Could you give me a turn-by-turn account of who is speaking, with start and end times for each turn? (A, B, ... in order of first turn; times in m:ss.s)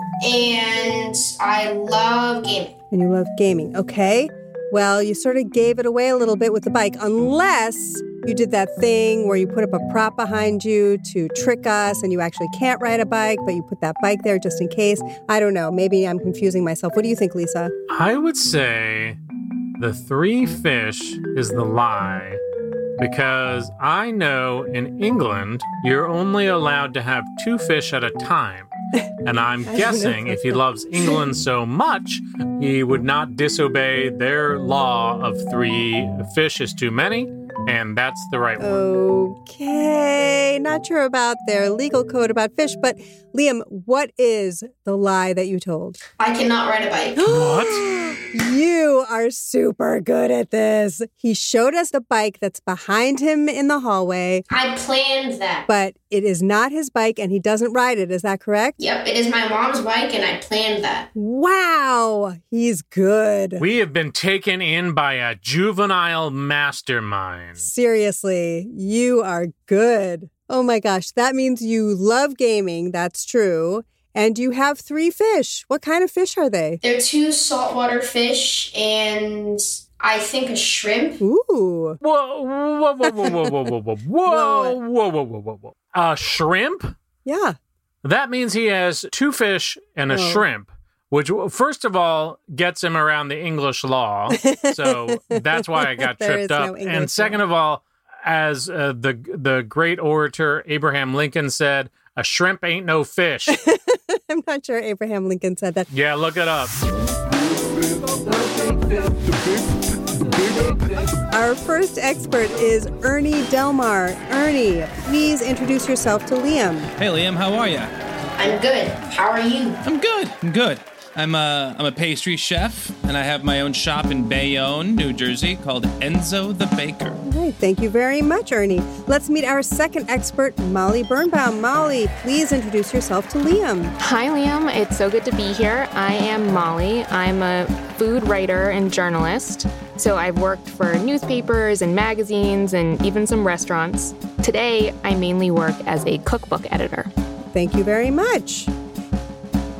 0:00.2-0:02.7 A
0:02.9-0:17.7 B
0:17.9-0:19.2 C
0:19.8-0:22.4 C
0:23.0-0:28.7 C
0:29.2-0:38.8 C
0:29.6-0:31.2 B
0:38.6-0:46.0 B
0:46.2-0:47.2 A
0:47.2-0:54.4 B
0:47.2-0:48.2 C
0:54.5-0:55.6 A
0:55.7-0:58.8 B
0:58.8-1:01.1 A
1:01.2-1:03.6 B
1:03.6-1:07.6 C
1:07.6-1:16.8 B
1:16.8-1:21.2 A
1:21.2-1:22.0 B
1:22.0-1:26.9 C
1:23.1-1:23.3 B
1:24.2-1:24.8 B
1:27.2-1:27.6 B
1:28.0-1:43.5 C
1:30.1-1:30.4 B
1:34.3-1:37.4 B
1:43.5-1:45.9 B
1:45.9-1:46.7 C
1:51.3-1:56.9 B
1:57.0-1:57.9 D
1:58.4-1:59.8 A
1:59.8-2:07.2 D
2:07.3-2:14.0 B
2:14.0-2:27.1 E
2:27.5-2:28.7 B